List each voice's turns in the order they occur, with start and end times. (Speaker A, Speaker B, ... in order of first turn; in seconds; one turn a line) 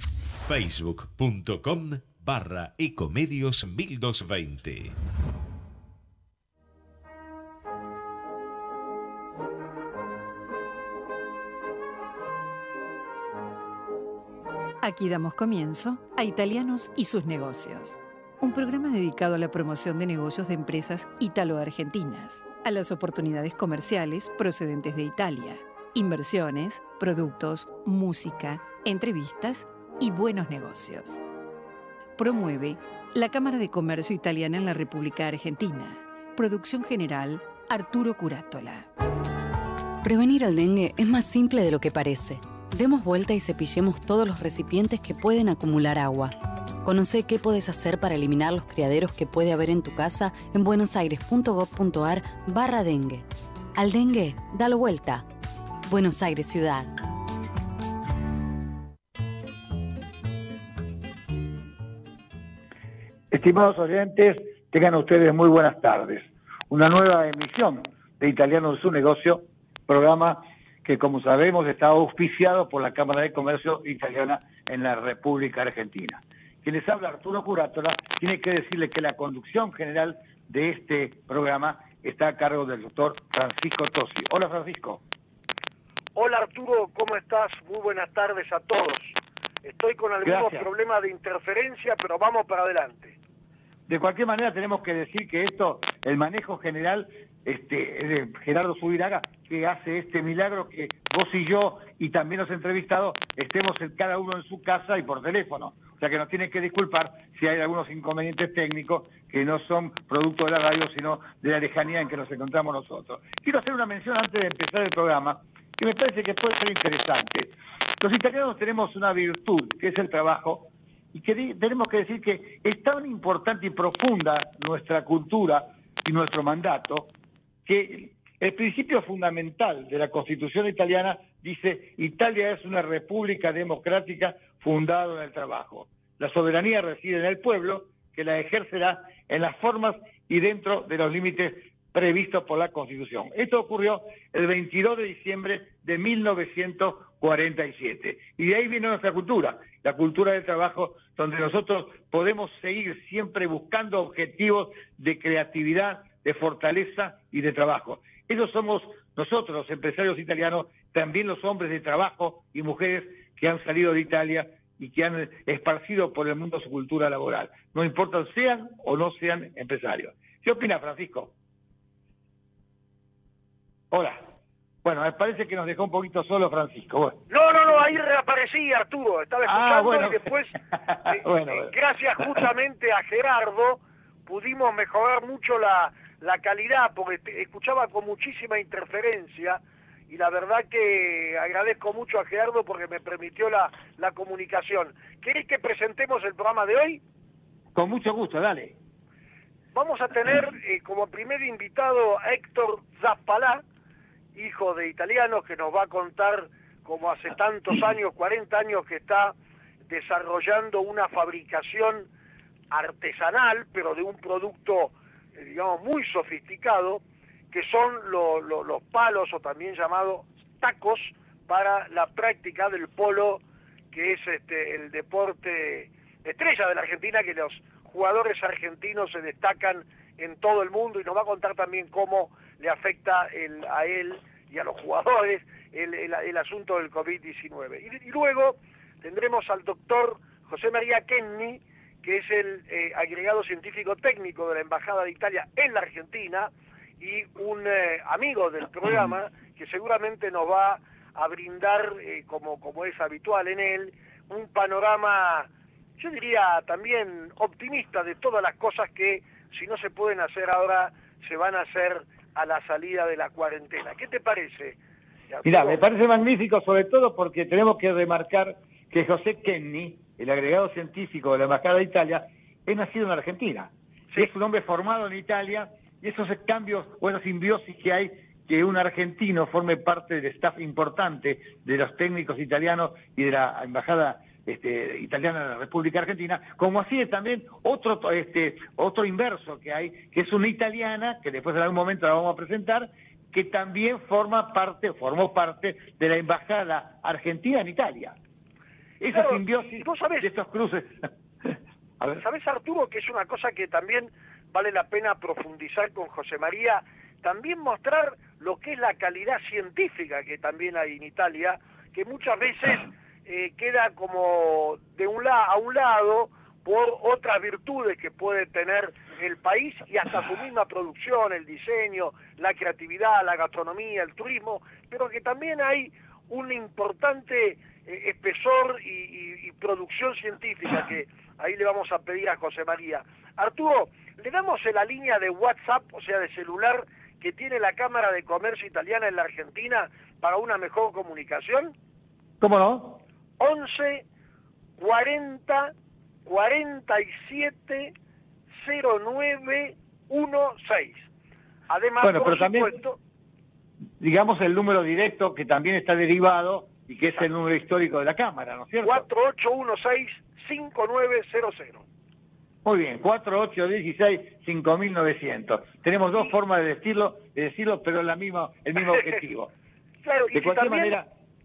Speaker A: 0.4-5.0
Speaker B: 14.8-31.2
Speaker B: 32.2-38.9
Speaker C: 40.0-55.2
Speaker C: 55.9-56.9
Speaker D: 63.3-85.0
Speaker E: 86.2-93.2
Speaker D: 90.2-90.7
Speaker D: 93.9-127.1
Speaker D: 127.7-171.3
Speaker D: 173.9-174.2
Speaker D: 174.8-177.2
Speaker E: 177.3-197.0
Speaker D: 179.4-180.2
Speaker D: 180.9-181.7
Speaker D: 197.7-198.8
Speaker E: 199.7-203.6
Speaker E: 204.3-209.3
Speaker E: 209.9-212.1
Speaker E: 212.7-264.8
Speaker E: 265.3-265.8
Speaker D: 265.4-298.2
Speaker D: 299.0-302.2
Speaker E: 299.1-300.3
Speaker E: 302.2-341.7
Speaker D: 342.4-343.0
Speaker E: 343.4-344.1
Speaker E: 344.8-345.7
Speaker E: 346.2-347.9
Speaker E: 348.6-351.1
Speaker E: 351.7-353.0
Speaker D: 352.0-352.8
Speaker D: 354.0-359.1
Speaker E: 358.8-361.8
Speaker D: 362.6-369.5
Speaker E: 370.0-370.9
Speaker D: 370.3-371.1